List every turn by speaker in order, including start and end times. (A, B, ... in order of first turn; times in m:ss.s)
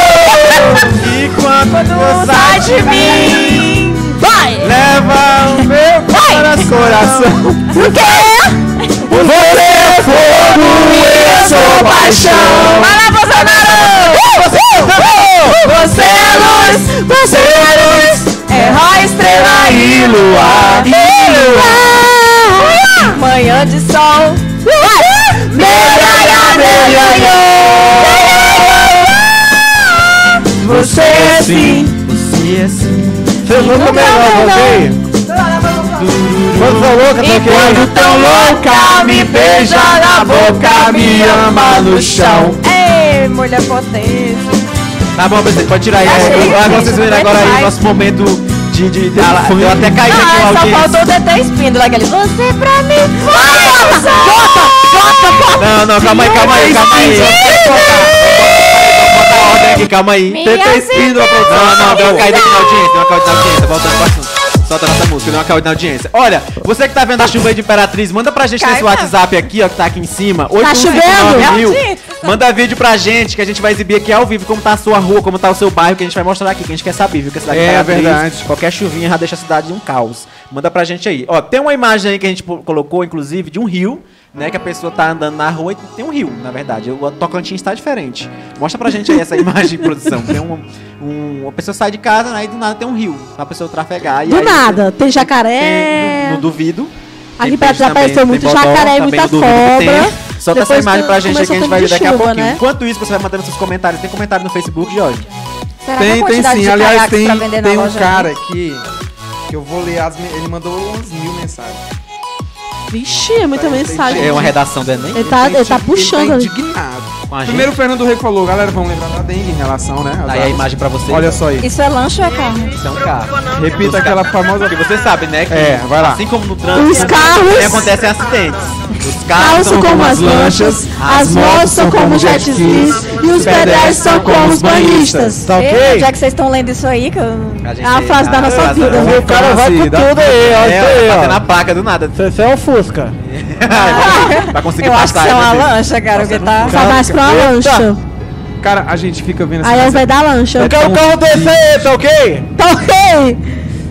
0:00.4-0:00.8 A
0:00.8-0:03.8 B
0:01.7-0:04.8 A
0:04.6-0:07.5 B
0:05.4-0:06.7 A
0:06.6-0:08.0 C
0:07.7-0:09.1 A
0:07.7-0:08.6 D
0:09.0-0:12.8 E
0:09.1-0:13.0 C
0:10.1-0:20.9 A
0:14.1-0:15.6 E
0:17.3-0:18.3 C
0:19.6-0:21.9 C
0:20.4-0:21.8 E
0:21.1-0:23.2 D
0:23.0-0:24.6 A
0:24.6-0:28.3 D
0:25.5-0:29.3 A
0:25.6-0:28.4 E
0:26.4-0:27.2 C
0:30.5-0:31.9 A
0:30.6-0:31.9 C
0:32.0-0:33.4 B
0:33.4-0:35.0 E
0:33.5-0:35.0 A
0:35.6-0:36.1 D
0:35.9-0:37.0 B
0:36.5-0:36.8 C
0:36.5-0:37.9 E
0:37.2-0:44.6 A
0:37.4-0:42.6 C
0:45.2-0:51.0 B
0:46.0-0:47.8 A
0:46.0-0:46.9 C
0:49.1-0:50.0 C
0:50.0-0:58.3 A
0:53.5-0:54.7 D
0:55.6-1:00.4 B
0:56.3-0:58.0 C
1:00.3-1:03.1 A
1:00.4-1:02.3 C
1:01.4-1:45.2 B
1:08.6-1:09.1 A
1:10.6-1:11.5 D
1:10.8-1:12.4 A
1:17.5-1:18.4 C
1:34.2-1:36.4 D
1:37.4-1:42.6 D
1:45.8-1:48.3 A
1:46.0-1:48.8 C
1:49.5-1:51.8 C
1:52.9-1:54.6 D
1:53.5-1:54.5 C
1:54.0-1:55.3 B
1:55.1-1:56.5 D
1:55.2-2:01.7 C
1:57.3-1:57.8 B
2:00.2-2:01.4 B
2:01.6-2:02.7 A
2:02.7-2:10.1 B
2:03.5-2:04.8 C
2:05.5-2:06.2 C
2:06.7-2:07.9 D
2:09.3-2:15.5 D
2:09.7-2:15.4 C
2:11.0-2:11.5 B
2:12.3-2:12.8 B
2:13.4-2:14.3 B
2:15.4-2:16.1 E
2:15.6-2:17.6 A
2:17.6-2:19.2 B
2:17.8-2:19.2 D
2:18.4-2:21.4 E
2:18.9-2:20.2 C
2:20.4-2:22.2 B
2:22.1-2:23.2 E
2:23.2-2:26.8 B
2:23.7-2:26.8 A
2:24.0-2:24.4 D
2:26.7-2:28.0 D
2:26.7-2:27.2 C
2:26.8-2:27.9 E
2:28.6-2:31.6 C
2:29.6-2:30.8 D
2:30.6-2:32.5 E
2:32.6-2:33.4 D